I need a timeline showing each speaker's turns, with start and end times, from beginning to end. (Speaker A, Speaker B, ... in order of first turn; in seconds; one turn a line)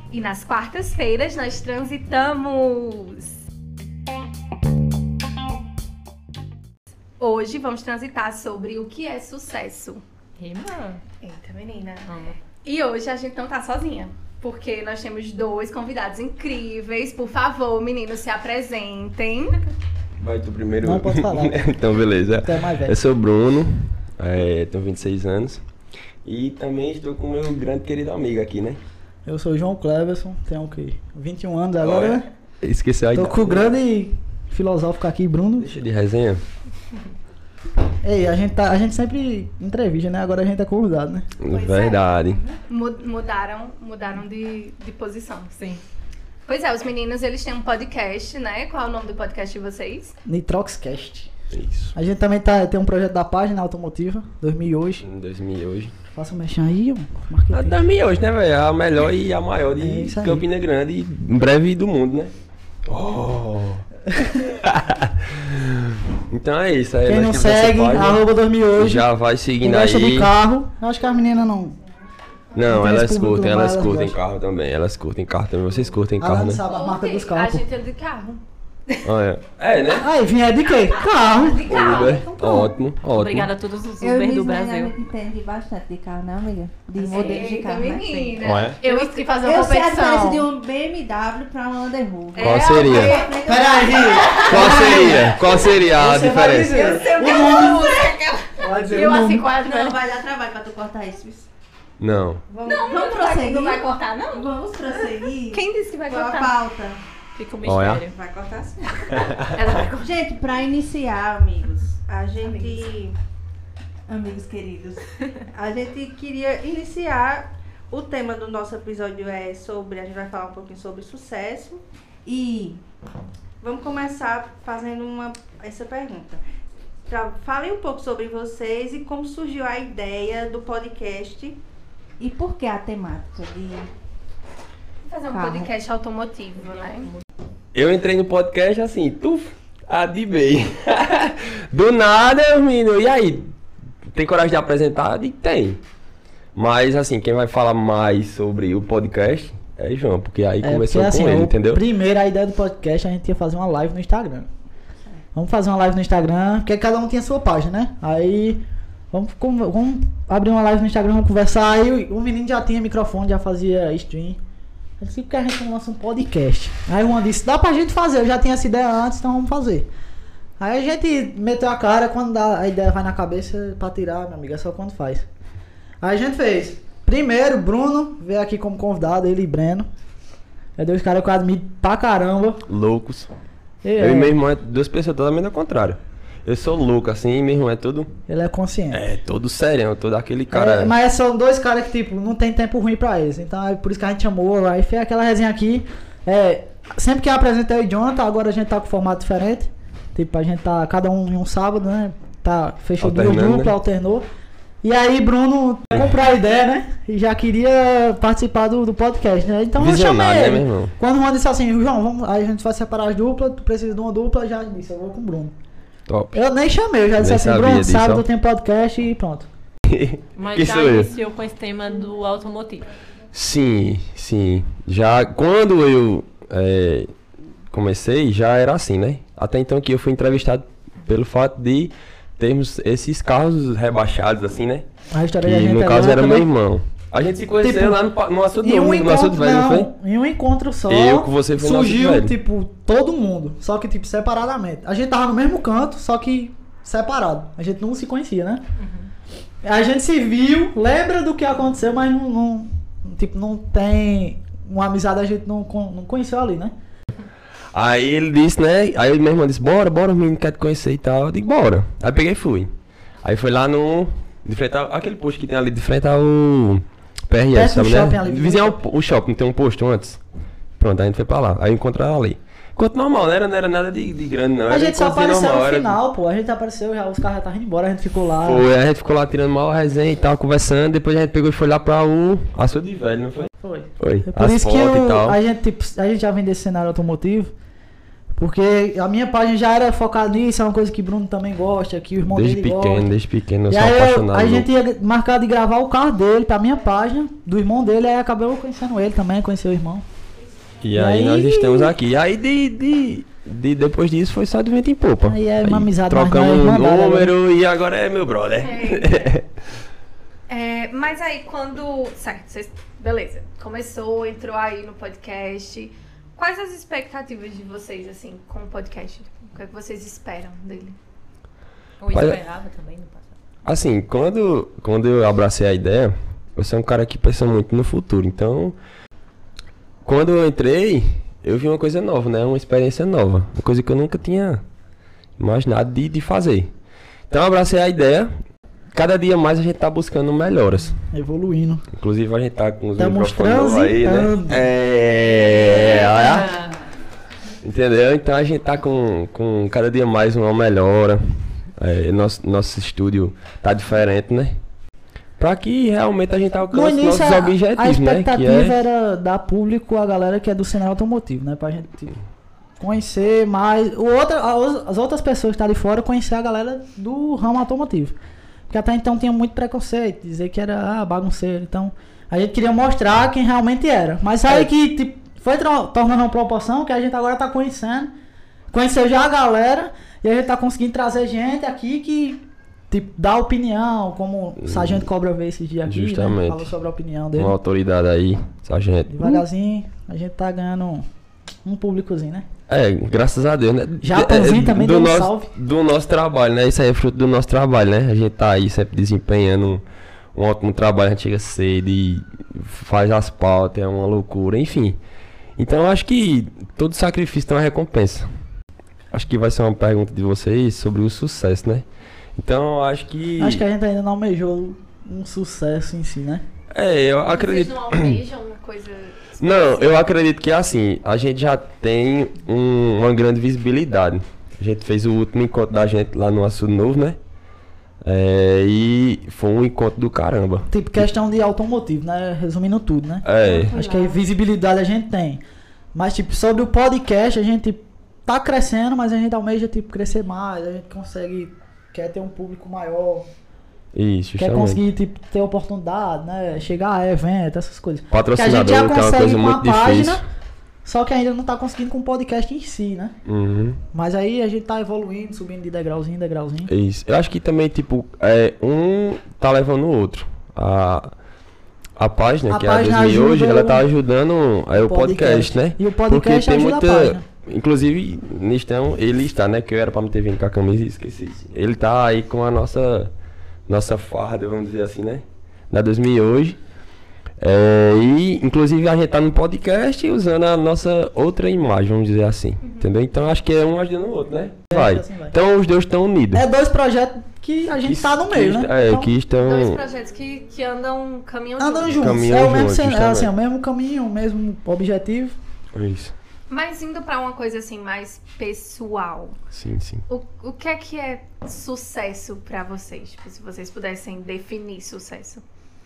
Speaker A: 0.1-3.4
Speaker A: 7.2-10.0
Speaker B: 10.4-11.0
Speaker A: 11.2-12.1
Speaker B: 12.1-12.3
Speaker A: 12.6-19.6
Speaker C: 20.2-25.6
Speaker D: 20.8-21.6
Speaker D: 22.4-22.9
Speaker C: 26.2-28.8
Speaker D: 29.2-32.3
Speaker C: 31.8-33.8
Speaker D: 33.1-35.7
Speaker C: 35.6-36.4
Speaker D: 38.0-41.3
Speaker C: 41.4-42.4
Speaker E: 41.5-42.6
Speaker A: 42.7-45.7
Speaker A: 46.5-50.1
Speaker D: 50.2-51.3
Speaker C: 51.5-51.9
Speaker D: 51.9-55.0
Speaker C: 55.0-55.9
Speaker D: 56.1-57.8
Speaker C: 57.5-62.3
Speaker D: 59.8-60.4
Speaker C: 62.9-68.2
Speaker D: 67.1-69.0
Speaker C: 68.7-70.3
Speaker D: 69.6-71.8
Speaker C: 72.5-76.6
Speaker D: 72.7-74.2
Speaker D: 76.2-77.6
Speaker A: 76.6-79.0
Speaker C: 79.0-80.1
Speaker D: 80.0-81.8
Speaker A: 81.0-82.6
Speaker C: 81.7-83.5
Speaker B: 83.0-84.9
Speaker E: 84.0-88.4
Speaker B: 87.0-87.5
Speaker A: 87.0-89.3
Speaker C: 88.4-88.8
Speaker B: 88.8-90.5
Speaker E: 89.4-94.9
Speaker A: 92.3-95.6
Speaker C: 92.4-93.1
Speaker B: 92.4-93.2
Speaker D: 93.4-98.0
Speaker C: 94.5-96.9
Speaker A: 96.7-98.7
Speaker D: 98.6-99.5
Speaker B: 98.8-100.0
Speaker E: 99.5-101.5
Speaker C: 102.0-102.4
Speaker E: 102.5-107.0
Speaker A: 102.6-104.5
Speaker A: 105.0-106.5
Speaker B: 107.3-108.2
Speaker C: 107.6-108.0
Speaker E: 108.0-109.4
Speaker C: 109.1-109.5
Speaker B: 109.6-109.9
Speaker A: 109.7-110.0
Speaker E: 110.0-113.2
Speaker E: 114.1-122.8
Speaker E: 123.6-126.4
Speaker E: 127.1-131.6
Speaker E: 132.2-133.9
Speaker A: 135.1-137.1
Speaker E: 135.3-135.7
Speaker C: 137.7-143.5
Speaker C: 144.0-145.8
Speaker C: 146.5-151.8
Speaker D: 150.6-154.5
Speaker D: 155.3-164.4
Speaker D: 165.0-169.9
Speaker D: 170.6-175.2
Speaker D: 176.0-179.9
Speaker D: 180.8-182.6
Speaker C: 182.7-183.3
Speaker D: 183.8-184.3
Speaker C: 184.0-188.1
Speaker D: 188.3-189.0
Speaker C: 188.9-190.9
Speaker D: 190.5-204.2
Speaker C: 203.0-203.7
Speaker D: 204.8-215.5
Speaker C: 209.8-210.9
Speaker C: 216.1-216.4
Speaker D: 216.3-219.5
Speaker C: 217.2-218.2
Speaker C: 219.8-221.1
Speaker B: 220.4-222.8
Speaker C: 223.3-227.1
Speaker C: 227.7-234.8
Speaker D: 235.1-236.4
Speaker C: 235.4-239.9
Speaker D: 237.6-238.0
Speaker D: 238.6-248.6
Speaker C: 240.9-242.4
Speaker D: 249.6-256.7
Speaker C: 257.7-262.7
Speaker C: 263.2-270.2
Speaker D: 267.5-268.8
Speaker C: 270.8-276.0
Speaker D: 274.7-278.6
Speaker C: 278.3-285.4
Speaker D: 283.6-287.5
Speaker D: 288.4-293.1
Speaker C: 292.2-294.7
Speaker D: 293.7-300.0
Speaker C: 300.8-309.5
Speaker D: 300.9-301.9
Speaker D: 305.2-307.3
Speaker A: 308.6-309.3
Speaker A: 310.5-321.0
Speaker B: 322.0-323.3
Speaker C: 322.1-322.4
Speaker C: 323.6-328.8
Speaker C: 330.0-334.6
Speaker C: 335.4-336.7
Speaker C: 337.3-338.3
Speaker C: 338.9-340.9
Speaker D: 341.1-341.9
Speaker C: 341.9-346.5
Speaker D: 343.0-344.6
Speaker D: 345.9-346.4
Speaker B: 346.1-346.7
Speaker C: 347.6-351.2
Speaker C: 351.8-354.6
Speaker C: 355.4-358.8
Speaker D: 356.7-362.2
Speaker D: 362.8-368.1
Speaker D: 368.7-378.1
Speaker D: 378.7-387.5
Speaker C: 384.6-385.1
Speaker C: 385.8-386.7
Speaker C: 387.3-389.4
Speaker D: 389.1-391.1
Speaker D: 391.6-392.5
Speaker C: 392.7-399.8
Speaker D: 394.0-395.5
Speaker C: 400.3-405.0
Speaker C: 405.6-408.2
Speaker C: 409.1-413.6
Speaker D: 413.4-416.4
Speaker C: 416.7-418.2
Speaker A: 417.3-419.7
Speaker C: 419.4-427.2
Speaker C: 428.0-431.1
Speaker D: 430.7-435.4
Speaker C: 433.2-433.7
Speaker E: 433.4-434.2
Speaker D: 435.9-443.3
Speaker C: 443.9-444.8
Speaker D: 444.4-450.2
Speaker C: 448.1-450.2
Speaker D: 450.8-453.1
Speaker C: 453.2-453.8
Speaker D: 453.9-456.7
Speaker C: 456.7-461.1
Speaker C: 462.0-473.1
Speaker D: 462.5-463.9
Speaker D: 464.8-467.2
Speaker C: 473.7-476.6
Speaker C: 477.4-486.4
Speaker A: 482.6-482.9
Speaker D: 484.7-485.3
Speaker D: 486.3-489.1
Speaker C: 487.8-489.8
Speaker A: 489.4-492.2
Speaker D: 491.6-495.4
Speaker C: 491.9-493.3
Speaker C: 495.7-496.1
Speaker A: 496.5-499.4
Speaker C: 499.5-500.0
Speaker A: 500.1-505.4